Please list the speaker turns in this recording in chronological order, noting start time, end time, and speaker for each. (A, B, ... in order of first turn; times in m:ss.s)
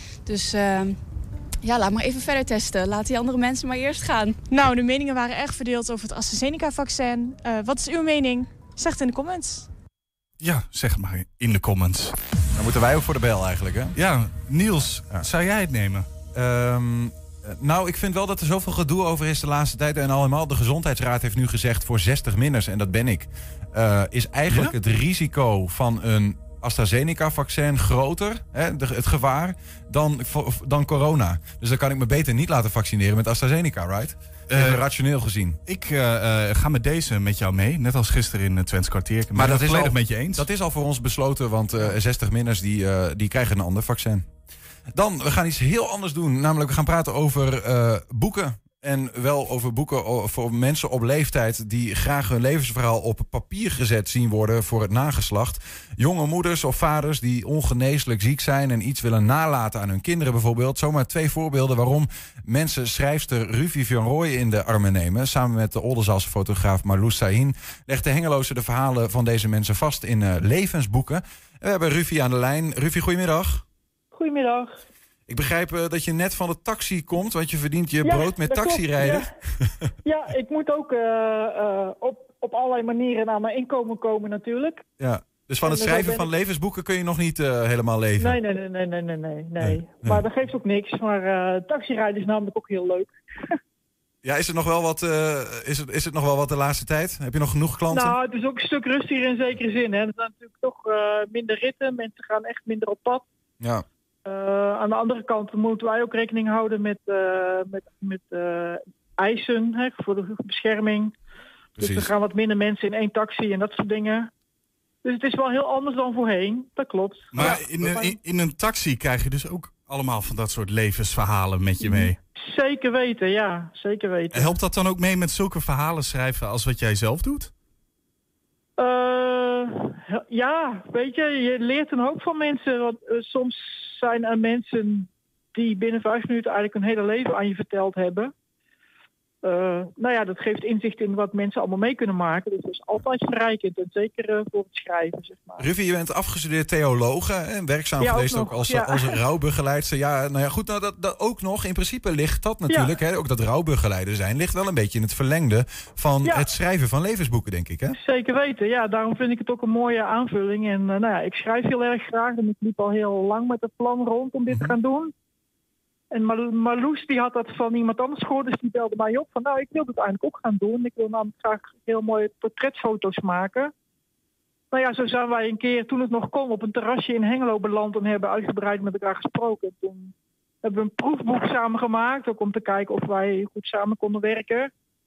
0:00.2-0:01.0 A
0:01.6-0:04.4 A
0:04.5-0:09.7 B
0:10.4-0:12.2 C
0:12.6-0:14.0 D
0:13.9-0:16.1 C
0:14.8-0:15.2 D
0:16.4-0:35.6 D
0:24.5-0:24.7 C
0:34.5-0:34.8 C
0:35.7-0:40.5 C
0:39.3-0:44.2 D
0:44.9-1:13.6 D
1:14.1-1:14.8 E
1:15.3-1:19.9 D
1:18.0-1:19.3 E
1:20.0-1:24.8 E
1:25.0-1:28.4 D
1:25.6-1:26.3 E
1:28.2-1:33.2 E
1:29.6-1:30.2 D
1:34.2-1:38.2 D
1:37.9-1:43.2 E
1:43.6-1:43.8 D
1:44.2-1:51.1 E
1:51.8-1:52.1 D
1:51.8-1:54.3 E
1:55.0-1:58.2 E
1:57.3-2:02.2 C
2:01.8-2:04.6 E
2:04.3-2:07.5 C
2:08.8-2:18.3 E
2:19.4-2:25.7 E
2:25.6-2:38.0 D
2:28.0-2:29.2 E
2:32.7-2:33.0 E
2:36.2-2:36.5 E
2:37.9-2:45.1 E
2:44.5-2:44.8 D
2:46.1-2:53.7 E
2:54.7-3:04.7 E